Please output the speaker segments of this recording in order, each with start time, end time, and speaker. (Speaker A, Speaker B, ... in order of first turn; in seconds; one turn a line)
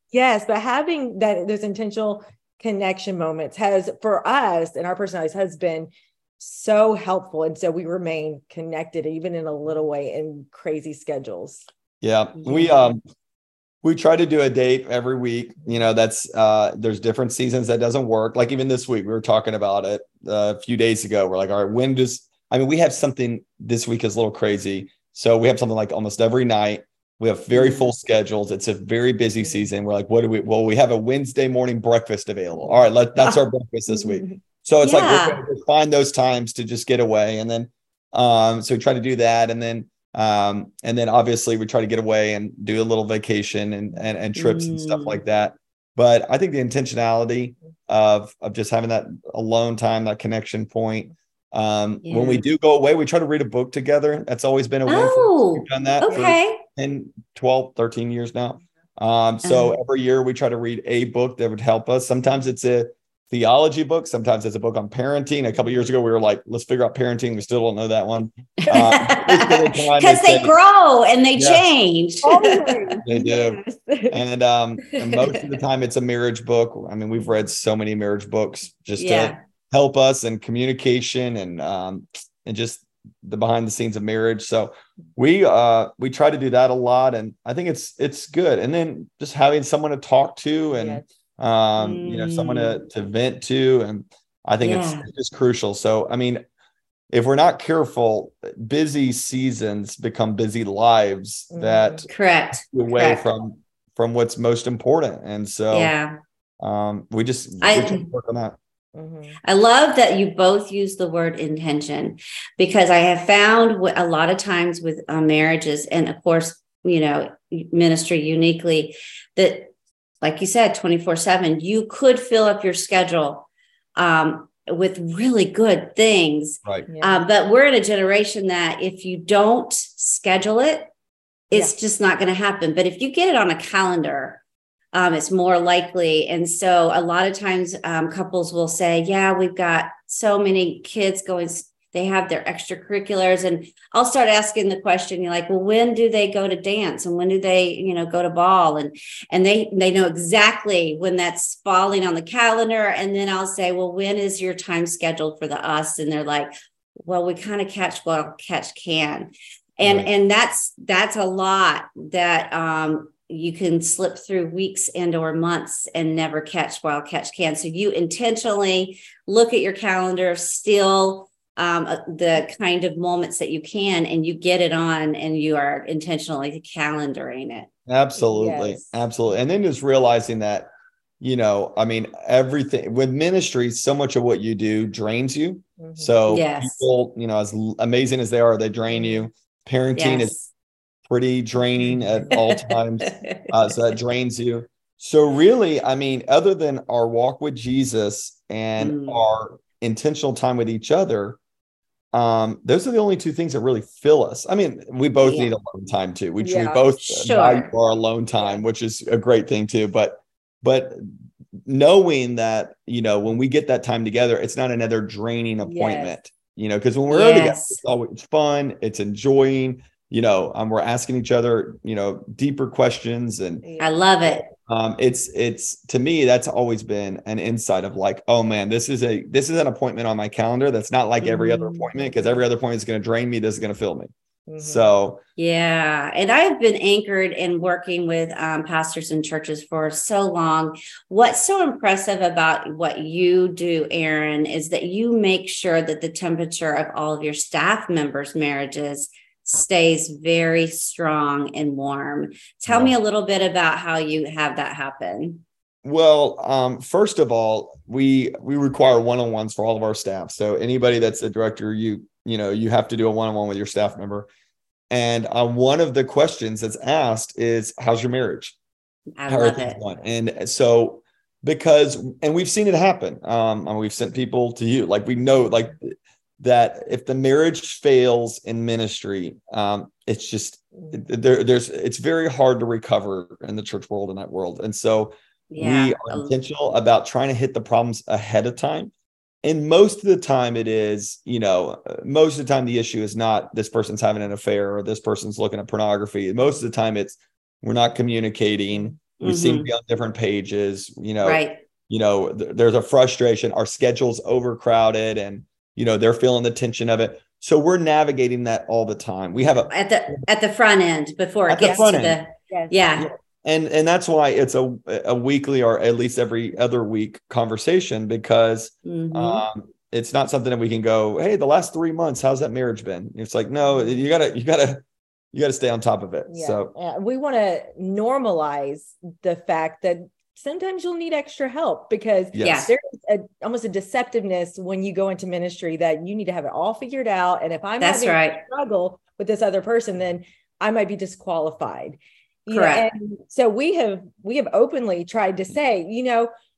Speaker A: 0.1-11.7
Speaker B: 12.0-13.0
Speaker C: 12.4-12.8
Speaker B: 13.8-70.5
Speaker C: 27.5-27.9
Speaker C: 34.8-35.4
Speaker C: 44.4-45.2
Speaker C: 52.0-52.4
Speaker C: 54.9-56.6
Speaker C: 59.4-59.8
Speaker C: 68.7-73.0
Speaker B: 71.3-71.7
Speaker A: 72.2-74.2
Speaker B: 73.0-96.4
Speaker C: 75.0-75.5
Speaker C: 79.0-79.4
Speaker A: 90.7-91.1
Speaker C: 91.8-92.8
Speaker C: 94.6-95.1
Speaker B: 97.1-102.1
Speaker A: 101.5-102.1
Speaker C: 102.1-103.2
Speaker B: 102.7-105.9
Speaker C: 105.7-106.2
Speaker B: 106.6-108.6
Speaker C: 107.6-108.1
Speaker A: 109.0-109.4
Speaker C: 109.4-130.9
Speaker A: 126.9-127.2
Speaker C: 131.5-134.4
Speaker C: 134.9-177.7
Speaker B: 159.8-160.1
Speaker B: 177.9-180.7
Speaker A: 178.2-179.0
Speaker B: 181.2-190.3
Speaker A: 185.8-186.3
Speaker C: 186.3-186.9
Speaker A: 188.9-189.2
Speaker C: 189.9-190.5
Speaker B: 191.1-201.4
Speaker A: 191.8-192.3
Speaker C: 192.3-193.5
Speaker C: 198.8-199.2
Speaker B: 202.1-211.1
Speaker C: 205.2-205.5
Speaker A: 206.4-206.9
Speaker C: 207.0-207.7
Speaker B: 211.7-223.6
Speaker A: 215.6-216.2
Speaker C: 217.1-217.8
Speaker A: 223.6-224.4
Speaker C: 223.8-224.5
Speaker B: 224.6-235.2
Speaker C: 231.2-231.9
Speaker A: 234.5-234.9
Speaker C: 235.4-255.4
Speaker B: 252.7-252.9
Speaker B: 255.8-264.3
Speaker B: 264.9-268.6
Speaker C: 269.2-269.8
Speaker B: 269.3-288.9
Speaker A: 280.8-281.1
Speaker C: 285.5-286.4
Speaker B: 289.4-310.2
Speaker C: 299.2-299.7
Speaker C: 301.2-301.6
Speaker C: 309.7-313.1
Speaker B: 311.5-312.2
Speaker A: 311.6-311.9
Speaker B: 313.0-326.7
Speaker C: 318.9-319.5
Speaker A: 323.7-324.0
Speaker A: 326.3-346.3
Speaker B: 332.3-332.7
Speaker C: 332.4-332.7
Speaker C: 337.8-338.4
Speaker C: 342.5-342.9